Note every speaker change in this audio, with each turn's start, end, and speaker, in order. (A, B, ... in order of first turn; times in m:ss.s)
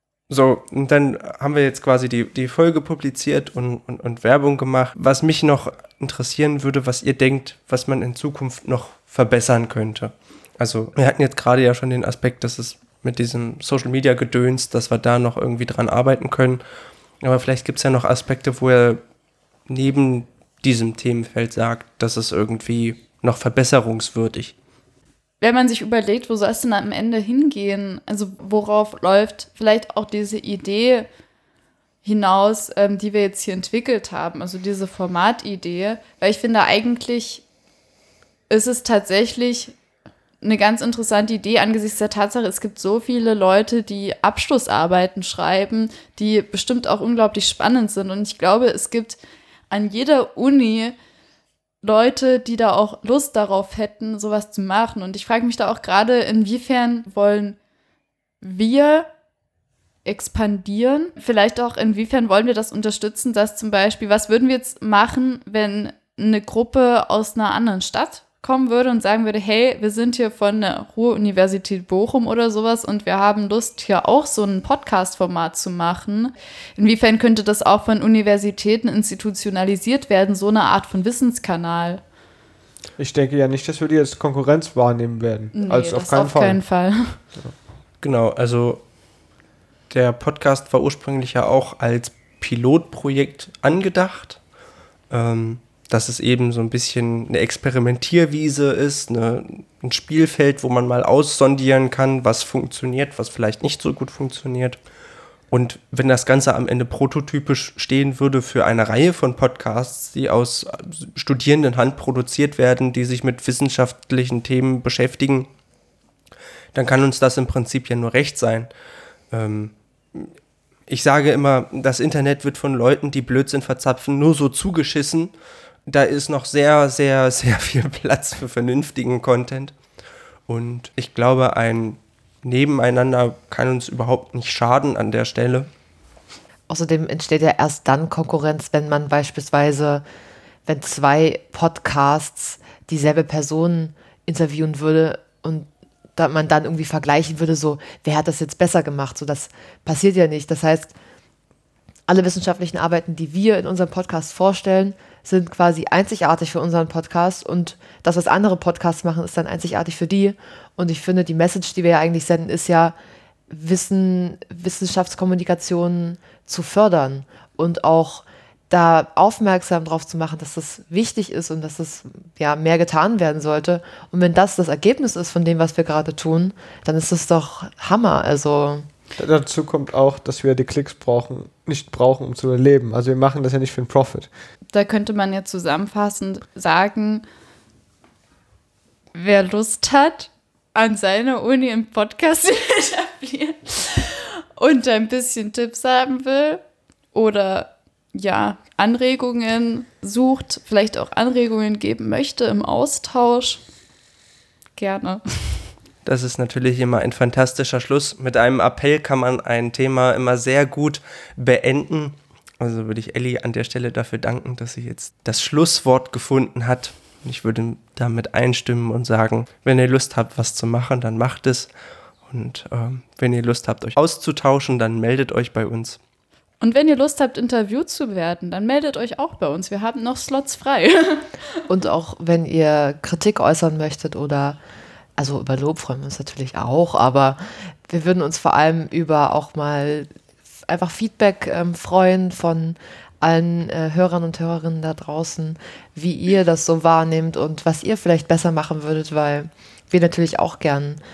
0:00.3-0:16.6 A
0:17.2-0:19.0 A
0:19.7-0:24.5 A
0:25.4-0:31.1 B
0:32.0-0:37.4 B
0:38.5-0:39.7 B
0:40.4-0:49.2 B
0:49.7-0:51.0 B
0:51.8-0:57.6 B
0:58.4-0:59.1 B
1:00.0-1:22.0 B
1:23.0-1:26.6 C
1:25.5-1:27.2 B
1:28.0-1:28.8 A
1:29.9-1:34.4 A
1:35.1-1:44.8 A
1:45.5-1:55.5 A
1:56.7-1:58.7 A
1:59.3-2:00.3 A
2:00.9-2:05.3 A
2:05.9-2:09.7 A
2:10.5-2:15.7 A
2:16.7-2:20.0 D
2:20.6-2:30.9 D
2:32.1-2:42.9 D
2:43.5-2:58.9 D
2:59.2-3:04.3 C
3:04.7-3:07.2 B
3:09.1-3:16.6 B
3:17.1-3:23.6 B
3:24.8-3:25.7 B
3:26.0-3:41.7 A
3:42.3-3:46.0 A
3:46.6-3:51.3 B
3:51.7-3:54.6 D
3:55.2-4:00.1 D
4:00.7-4:11.0 D